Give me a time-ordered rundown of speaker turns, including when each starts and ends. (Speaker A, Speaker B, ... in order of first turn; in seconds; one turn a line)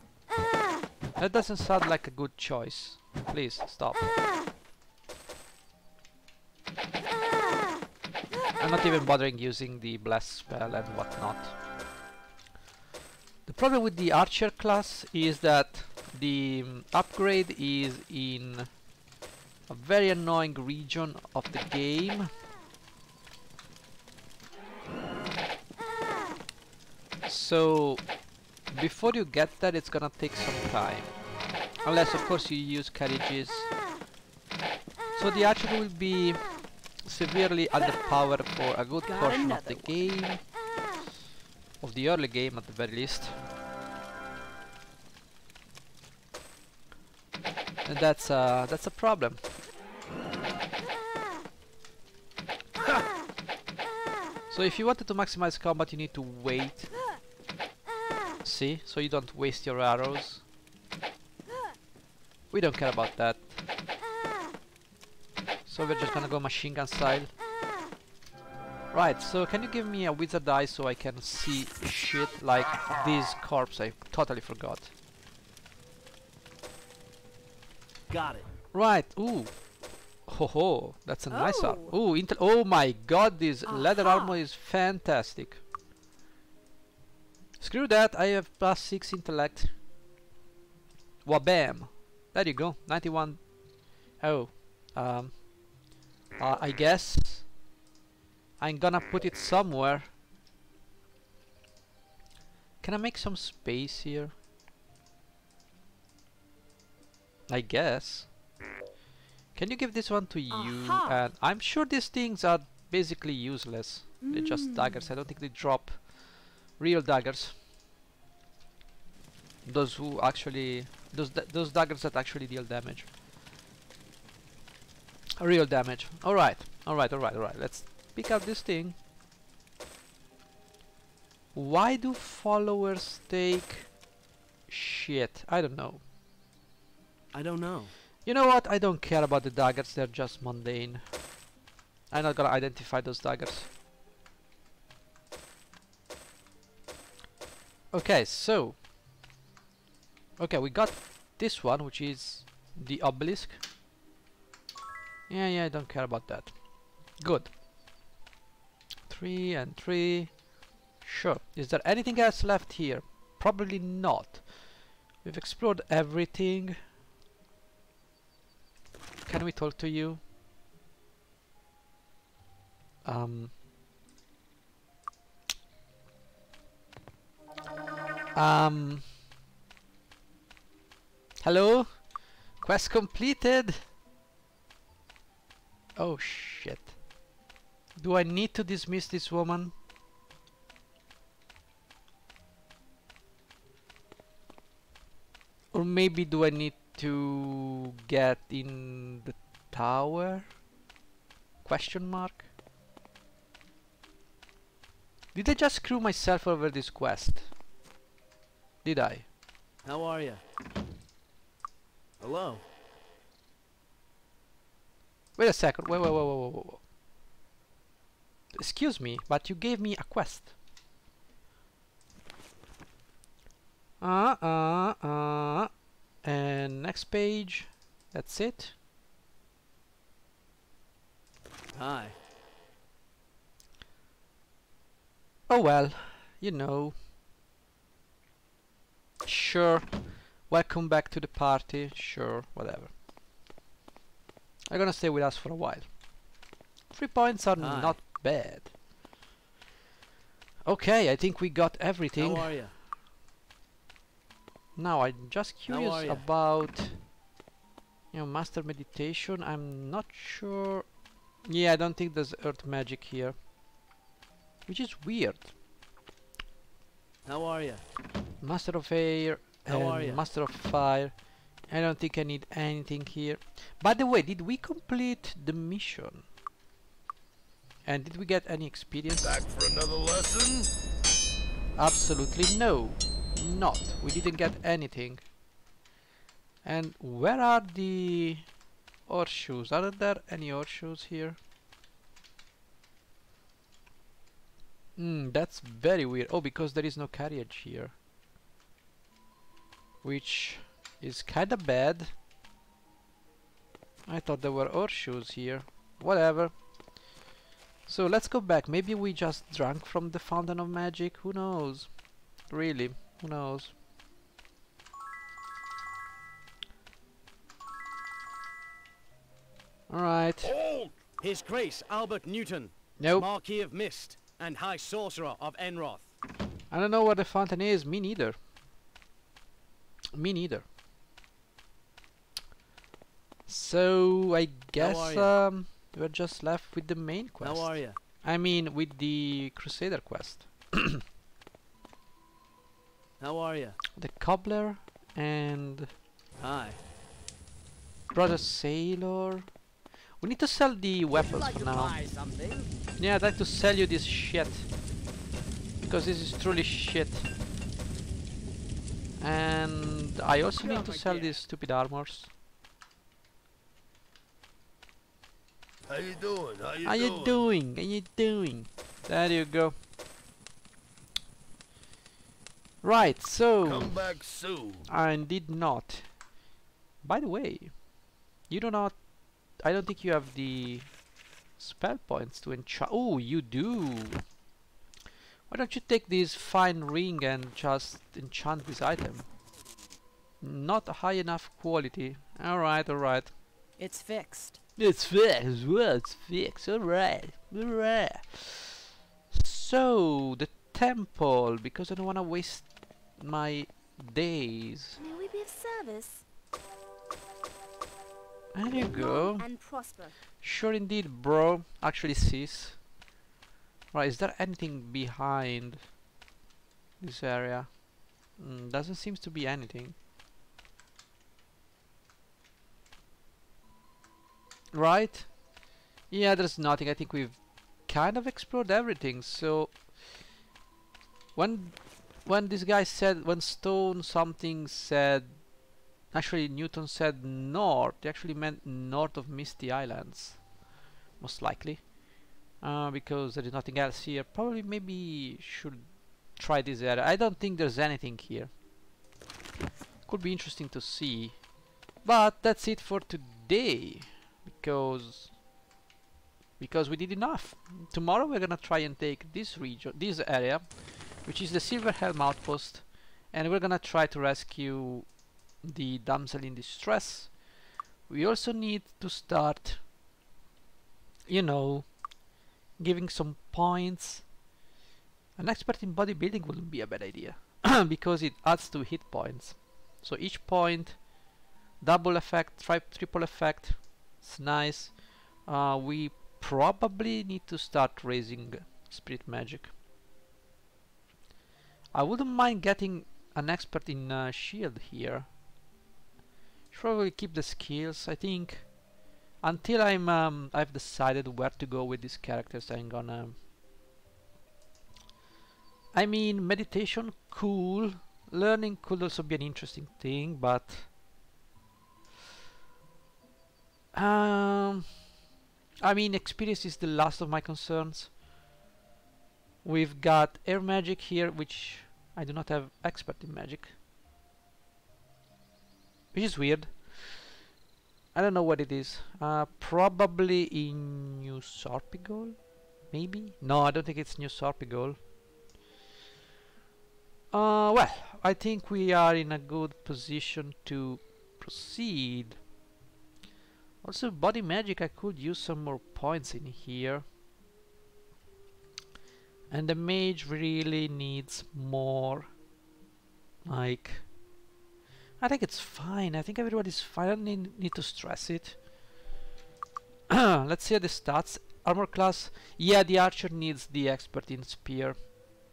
Speaker A: 1.2-4.1
Speaker A: 8.6-11.6
Speaker A: 13.4-18.7
Speaker A: 19.7-22.3
Speaker A: 27.2-28.1
Speaker A: 28.7-31.2
Speaker A: 31.8-33.7
Speaker A: 35.1-40.5
Speaker B: 39.0-40.2
Speaker A: 41.8-43.4
Speaker A: 47.9-49.5
Speaker A: 54.5-56.9
Speaker A: 58.4-60.4
Speaker A: 62.5-63.6
Speaker A: 65.7-67.3
Speaker A: 68.9-74.9
Speaker C: 78.1-78.5
Speaker A: 78.7-79.7
Speaker A: 80.2-85.6
Speaker B: 81.3-81.9
Speaker B: 83.7-84.4
Speaker A: 87.6-89.7
Speaker A: 91.2-93.5
Speaker A: 94.1-95.5
Speaker A: 96.4-97.5
Speaker A: 98.6-100.1
Speaker A: 102.8-104.3
Speaker A: 107.5-108.3
Speaker A: 109.5-116.2
Speaker B: 110.5-111.2
Speaker B: 114.2-115.1
Speaker A: 116.7-117.6
Speaker A: 119.7-123.1
Speaker A: 125.4-129.0
Speaker A: 131.5-133.9
Speaker A: 134.7-136.0
Speaker C: 137.3-137.9
Speaker A: 138.2-141.1
Speaker A: 142.1-143.7
Speaker A: 147.9-148.8
Speaker A: 150.4-153.6
Speaker A: 155.3-157.6
Speaker A: 159.1-160.4
Speaker A: 161.0-166.8
Speaker A: 169.3-170.2
Speaker A: 173.0-173.5
Speaker A: 178.3-179.1
Speaker A: 181.4-183.8
Speaker A: 186.0-187.0
Speaker A: 188.0-189.7
Speaker A: 195.7-200.5
Speaker A: 201.6-202.5
Speaker A: 205.3-207.5
Speaker A: 208.8-209.3
Speaker C: 209.8-210.4
Speaker C: 212.2-212.6
Speaker A: 215.4-216.8
Speaker A: 218.5-220.5
Speaker A: 224.0-225.7
Speaker A: 226.2-228.8
Speaker C: 231.7-232.2
Speaker A: 235.5-237.0
Speaker A: 239.2-242.9
Speaker A: 244.7-245.9
Speaker A: 246.9-248.7
Speaker C: 247.6-248.0
Speaker A: 250.7-252.6
Speaker C: 252.2-252.7
Speaker A: 254.8-257.0
Speaker C: 255.7-256.2
Speaker A: 258.1-260.9
Speaker A: 261.4-263.4
Speaker A: 264.7-265.5
Speaker C: 267.3-267.8
Speaker A: 268.4-276.3
Speaker C: 269.7-270.2
Speaker A: 277.9-279.5
Speaker D: 279.2-280.7
Speaker A: 281.8-285.2
Speaker A: 286.6-288.5
Speaker A: 289.1-291.4
Speaker A: 295.0-297.9
Speaker A: 300.0-302.1
Speaker A: 304.1-306.6
Speaker A: 307.9-312.0
Speaker A: 312.5-313.7
Speaker A: 319.9-320.5
Speaker D: 320.4-321.0
Speaker C: 321.2-326.1
Speaker A: 323.0-323.3
Speaker A: 326.7-328.4
Speaker A: 330.1-330.6
Speaker A: 333.5-341.0
Speaker C: 334.8-335.3
Speaker C: 337.4-338.0
Speaker C: 343.2-343.8
Speaker A: 344.0-345.9
Speaker C: 346.4-346.8
Speaker A: 348.1-349.5
Speaker A: 350.2-352.0
Speaker C: 351.1-352.7
Speaker A: 353.0-354.7
Speaker A: 355.8-357.3
Speaker A: 359.2-362.3
Speaker C: 360.5-361.4
Speaker D: 365.9-367.4
Speaker A: 366.8-369.8
Speaker A: 372.8-374.2
Speaker D: 373.6-374.9
Speaker A: 374.9-376.2
Speaker A: 377.0-377.8
Speaker A: 378.5-380.9
Speaker A: 381.6-384.3
Speaker A: 385.5-389.3
Speaker A: 390.4-393.4
Speaker B: 393.8-394.6
Speaker A: 394.8-398.8
Speaker A: 399.3-405.0
Speaker E: 405.0-406.2
Speaker A: 408.5-409.6
Speaker E: 408.7-410.2
Speaker A: 410.4-412.8
Speaker A: 413.9-415.9
Speaker A: 417.0-417.8
Speaker A: 418.4-419.9
Speaker A: 424.7-425.4
Speaker A: 426.1-430.0
Speaker A: 431.4-435.5
Speaker A: 436.1-440.5
Speaker A: 441.2-441.9
Speaker A: 442.6-448.5
Speaker A: 450.1-451.4
Speaker A: 452.0-455.4
Speaker A: 456.6-467.4
Speaker A: 468.1-469.8
Speaker A: 471.3-472.0
Speaker A: 472.8-474.3
Speaker A: 475.4-481.1
Speaker A: 481.8-489.7
Speaker A: 491.9-495.3
Speaker A: 496.7-498.7
Speaker A: 499.4-503.4
Speaker A: 505.9-510.9
Speaker A: 513.9-515.0
Speaker A: 515.8-518.1
Speaker A: 519.6-523.7
Speaker A: 526.1-527.4
Speaker A: 528.1-535.0
Speaker A: 537.3-542.4
Speaker A: 543.8-547.0
Speaker A: 549.5-552.3
Speaker A: 553.5-554.1
Speaker A: 555.2-558.6
Speaker A: 560.1-565.1